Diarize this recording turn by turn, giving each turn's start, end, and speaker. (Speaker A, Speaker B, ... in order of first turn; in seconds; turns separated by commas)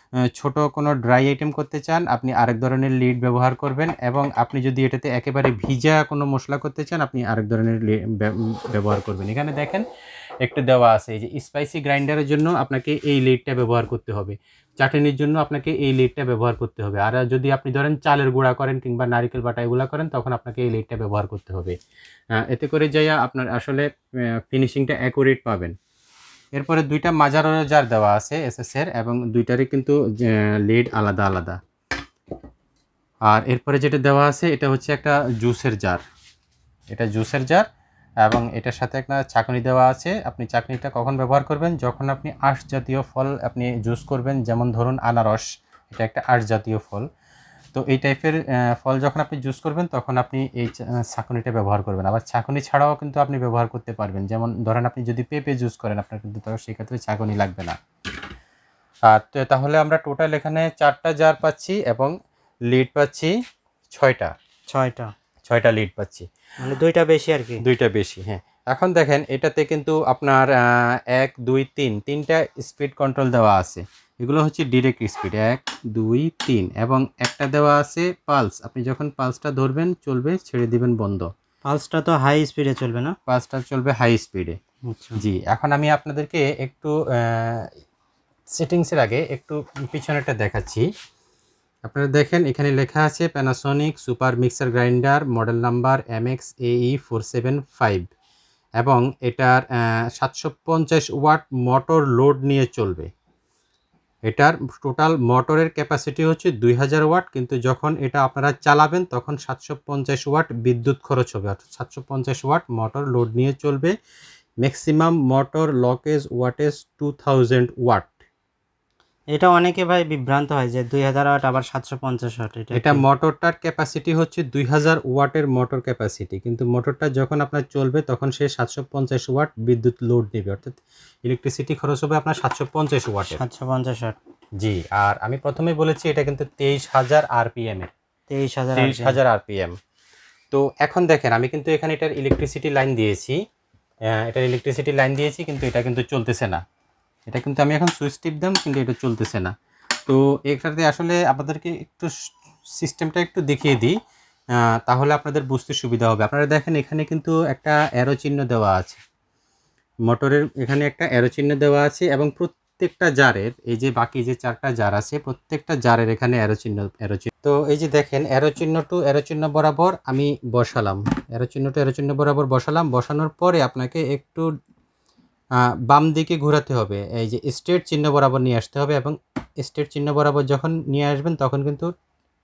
Speaker A: 0.3-9.9, Speaker A: 10.4-21.8, Speaker A: 22.4-23.9, Speaker A: 24.5-25.8, Speaker A: 26.6-31.6, Speaker A: 33.3-36.0, Speaker A: 36.9-37.7, Speaker A: 38.2-47.1, Speaker A: 47.7-57.8, Speaker A: 59.1-62.1, Speaker A: 62.7-63.3, Speaker A: 63.9-64.3, Speaker B: 64.7-65.1, Speaker A: 65.5-66.3, Speaker B: 66.6-67.6, Speaker A: 67.6-81.3, Speaker B: 81.7-83.2, Speaker A: 83.3-84.6, Speaker B: 84.9-85.2, Speaker A: 85.2-87.7, Speaker A: 88.6-90.9, Speaker A: 91.9-98.0, Speaker A: 98.8-103.1, Speaker A: 104.3-113.9, Speaker A: 114.6-118.1, Speaker B: 119.3-123.0, Speaker A: 122.7-133.4, Speaker B: 133.3-134.2, Speaker A: 134.6-137.9, Speaker B: 138.3-139.2, Speaker A: 138.8-139.7, Speaker A: 140.5-143.4, Speaker A: 144.1-146.6, Speaker A: 147.3-149.5, Speaker A: 150.1-152.1, Speaker A: 152.8-153.9, Speaker A: 154.6-159.0, Speaker A: 160.1-174.5, Speaker A: 175.6-181.9